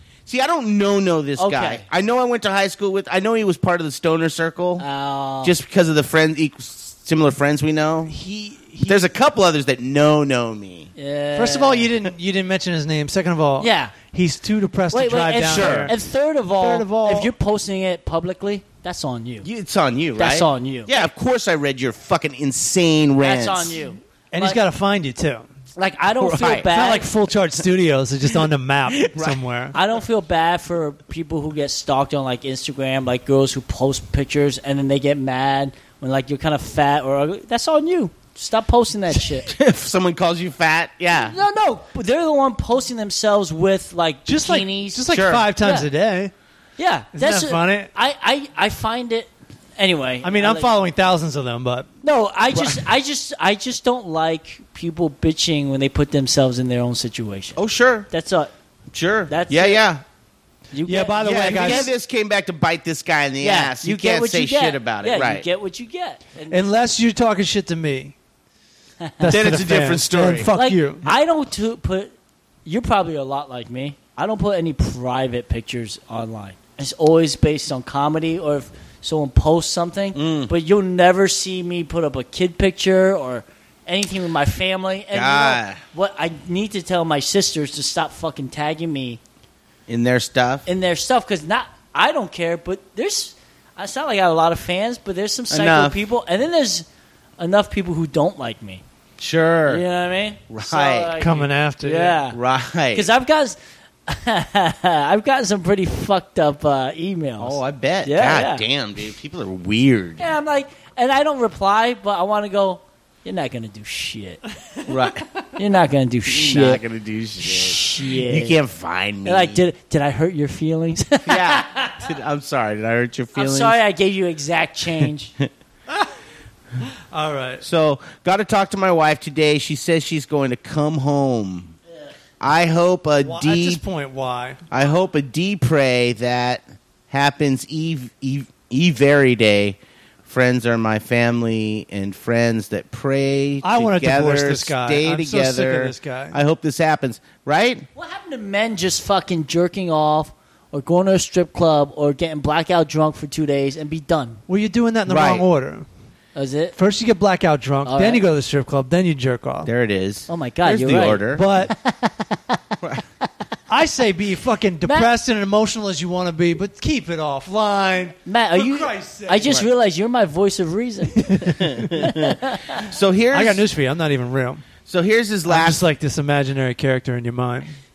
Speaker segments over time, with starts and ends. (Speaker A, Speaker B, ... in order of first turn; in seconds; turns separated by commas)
Speaker A: 0.3-4.9, Speaker B: 1.4-1.8, Speaker B: 4.8-5.5, Speaker A: 5.4-8.1, Speaker C: 8.1-9.1, Speaker A: 8.8-10.9, Speaker B: 11.0-11.9, Speaker C: 11.3-15.9, Speaker B: 13.6-13.9, Speaker B: 14.9-19.5, Speaker A: 15.4-15.9, Speaker C: 16.6-17.3, Speaker A: 19.4-23.8, Speaker B: 20.2-21.1, Speaker B: 23.2-24.6, Speaker C: 24.3-25.5, Speaker B: 25.8-27.1, Speaker A: 26.2-26.7, Speaker C: 26.7-29.8, Speaker A: 28.9-29.4, Speaker B: 29.7-39.5, Speaker A: 39.5-41.4, Speaker B: 41.1-45.9, Speaker C: 44.3-46.3, Speaker A: 45.1-45.5, Speaker B: 46.8-50.8, Speaker C: 47.1-47.9, Speaker C: 50.2-51.9, Speaker B: 52.0-57.6, Speaker A: 52.5-52.8, Speaker A: 57.6-58.1, Speaker B: 58.1-58.5, Speaker A: 58.9-60.0, Speaker B: 59.3-59.8, Speaker B: 60.7-61.9, Speaker C: 60.9-61.9, Speaker A: 61.2-65.5, Speaker B: 63.4-66.7, Speaker C: 66.5-68.2, Speaker B: 69.0-69.3, Speaker C: 69.2-71.1, Speaker A: 69.3-70.5, Speaker B: 70.5-72.1, Speaker B: 72.7-89.2, Speaker A: 80.2-80.5, Speaker A: 85.1-85.8, Speaker A: 89.9-90.7, Speaker B: 90.7-96.9, Speaker A: 95.5-96.0, Speaker B: 97.4-98.8, Speaker A: 99.2-99.8, Speaker B: 99.7-102.4, Speaker A: 100.5-101.1, Speaker C: 101.2-102.2, Speaker A: 102.3-103.1, Speaker B: 102.9-108.6, Speaker A: 107.4-110.4, Speaker B: 110.2-114.4, Speaker A: 114.9-115.3, Speaker B: 115.6-116.8, Speaker A: 116.2-119.6, Speaker B: 117.4-118.6, Speaker B: 119.2-122.1, Speaker A: 121.3-123.8, Speaker B: 123.3-125.3, Speaker C: 126.8-127.6, Speaker A: 127.6-131.7, Speaker A: 132.4-133.8, Speaker C: 133.2-134.6, Speaker A: 134.7-147.9, Speaker C: 143.6-146.4, Speaker B: 147.9-154.4, Speaker C: 154.5-155.9, Speaker A: 155.1-155.5, Speaker B: 156.3-156.8, Speaker C: 156.8-159.7, Speaker B: 157.8-158.2, Speaker A: 159.7-161.5, Speaker B: 160.3-162.6, Speaker C: 161.3-161.8, Speaker C: 163.7-169.6, Speaker B: 164.8-165.1, Speaker B: 168.3-172.8, Speaker C: 171.2-171.8, Speaker A: 171.6-173.7, Speaker C: 173.3-174.7, Speaker A: 174.9-175.8, Speaker C: 175.5-177.8